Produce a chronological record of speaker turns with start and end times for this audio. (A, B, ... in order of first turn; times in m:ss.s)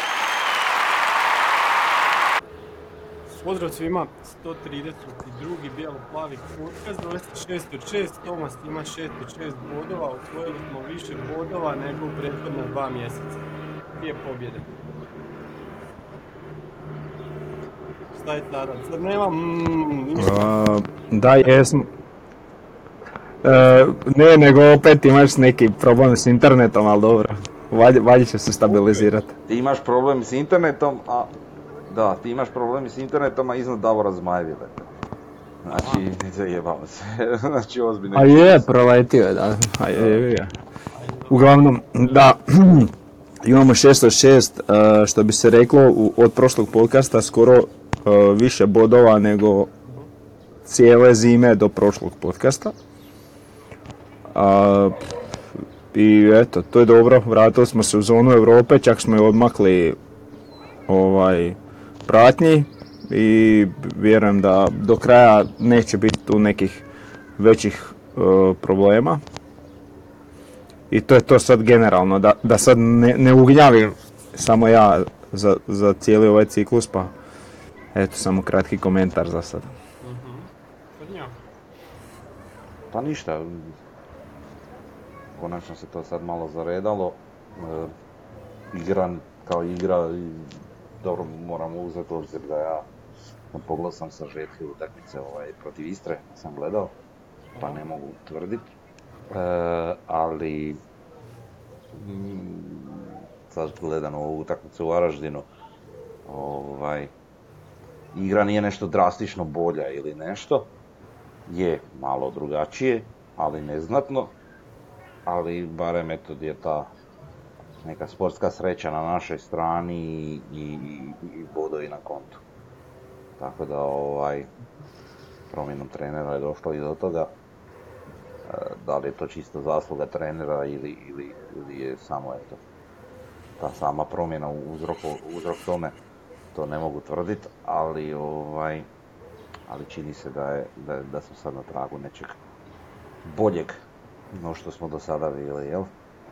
0:03.4-0:13.4 A
0:14.0-0:14.7 A
0:18.1-0:20.5 A
0:20.2-0:21.9 B
0:23.4-0:29.3 B
0:28.7-0:29.1 A
0:29.5-0:31.3 C
0:31.9-0:34.9 C
0:35.6-0:38.6 C
0:35.7-0:36.0 A
0:38.1-0:40.5 B
0:41.0-0:41.6 A
0:41.3-0:42.9 B
0:43.4-0:49.7 B
0:50.7-0:52.8 B
0:54.3-0:55.0 B
0:55.9-1:00.0 B
1:00.9-1:06.9 B
1:07.4-1:09.2 B
1:10.9-1:17.1 B
1:17.9-1:19.7 B
1:20.0-1:21.4 A
1:22.9-1:23.7 C
1:25.4-1:27.9 C
1:28.7-1:32.9 C
1:33.5-1:36.9 C
1:37.5-1:37.8 A
1:37.6-1:38.7 C
1:39.3-1:40.8 C
1:41.9-1:45.5 C
1:46.3-1:47.1 C
1:48.1-1:50.7 C
1:51.5-1:54.4 C
1:55.3-1:56.9 C
1:57.8-2:02.4 C
2:03.4-2:04.5 C
2:05.5-2:07.3 C
2:08.5-2:12.6 C
2:13.6-2:16.0 C
2:16.5-2:18.9 C
2:19.7-2:22.4 C
2:23.2-2:23.8 C
2:24.3-2:25.9 C